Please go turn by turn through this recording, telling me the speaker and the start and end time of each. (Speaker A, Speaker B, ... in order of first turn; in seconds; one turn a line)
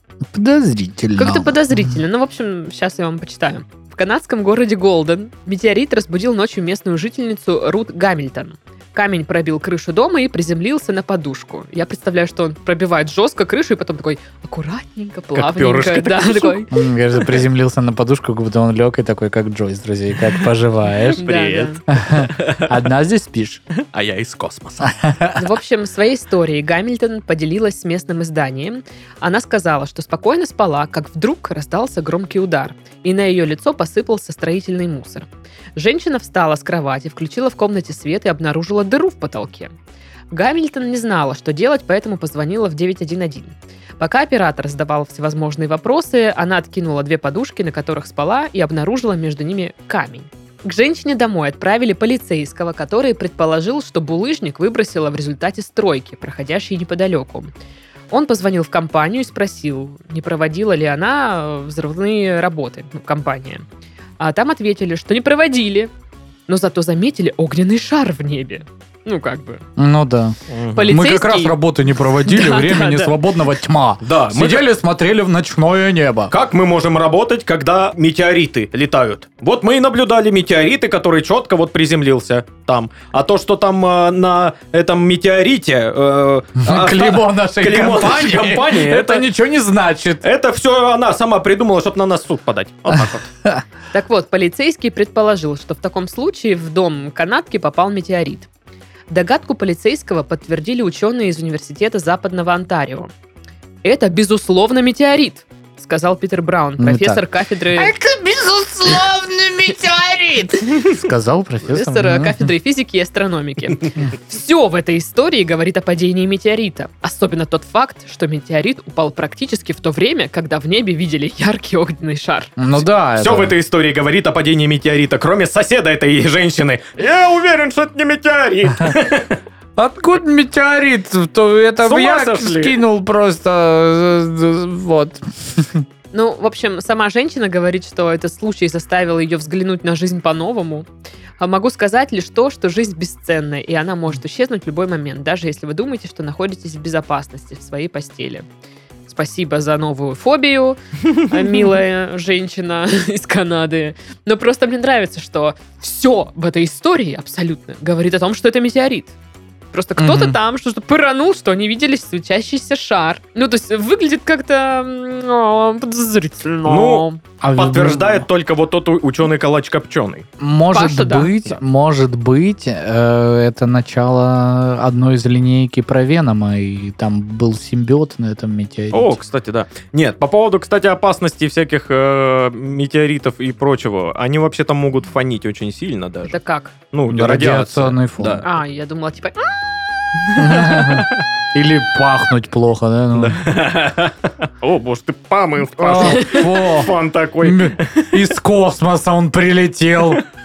Speaker A: 0.3-2.0
Speaker B: 1.2-16.8
Speaker C: 15.3-16.6
Speaker A: 16.7-21.3
Speaker B: 21.1-21.8
Speaker C: 21.2-22.7
Speaker A: 21.9-23.6
Speaker C: 23.8-24.9
Speaker A: 24.8-25.4
Speaker B: 25.4-39.7
Speaker B: 40.3-57.5
Speaker B: 58.1-63.7
Speaker B: 64.2-65.9
Speaker B: 66.5-69.6
Speaker A: 69.8-70.4
Speaker C: 70.5-70.9
Speaker B: 70.7-71.5
Speaker A: 70.9-76.3
Speaker B: 72.2-73.2
Speaker C: 74.0-74.6
Speaker C: 76.3-89.2
Speaker A: 86.6-90.2
Speaker C: 90.2-93.3
Speaker A: 92.9-93.6
Speaker B: 93.9-98.5
Speaker B: 99.1-103.1
Speaker B: 103.8-108.0
Speaker A: 106.8-107.2
Speaker A: 107.8-112.5
Speaker B: 111.7-122.5
Speaker A: 122.6-123.5
Speaker C: 123.2-129.4
Speaker A: 129.8-135.8
Speaker C: 131.8-132.8
Speaker B: 136.1-140.9
Speaker B: 141.4-148.5
Speaker B: 149.1-159.1
Speaker B: 159.7-167.2
Speaker A: 160.0-160.4
Speaker C: 166.7-170.3
Speaker A: 167.4-168.3
Speaker A: 170.4-179.2
Speaker B: 170.7-171.3
Speaker C: 178.9-186.4
Speaker B: 186.3-186.7
Speaker C: 186.9-188.4
Speaker A: 187.1-188.4
Speaker B: 188.4-189.6
Speaker C: 190.3-191.2
Speaker A: 190.4-193.4
Speaker C: 193.2-198.2
Speaker A: 195.8-200.2
Speaker B: 196.1-196.4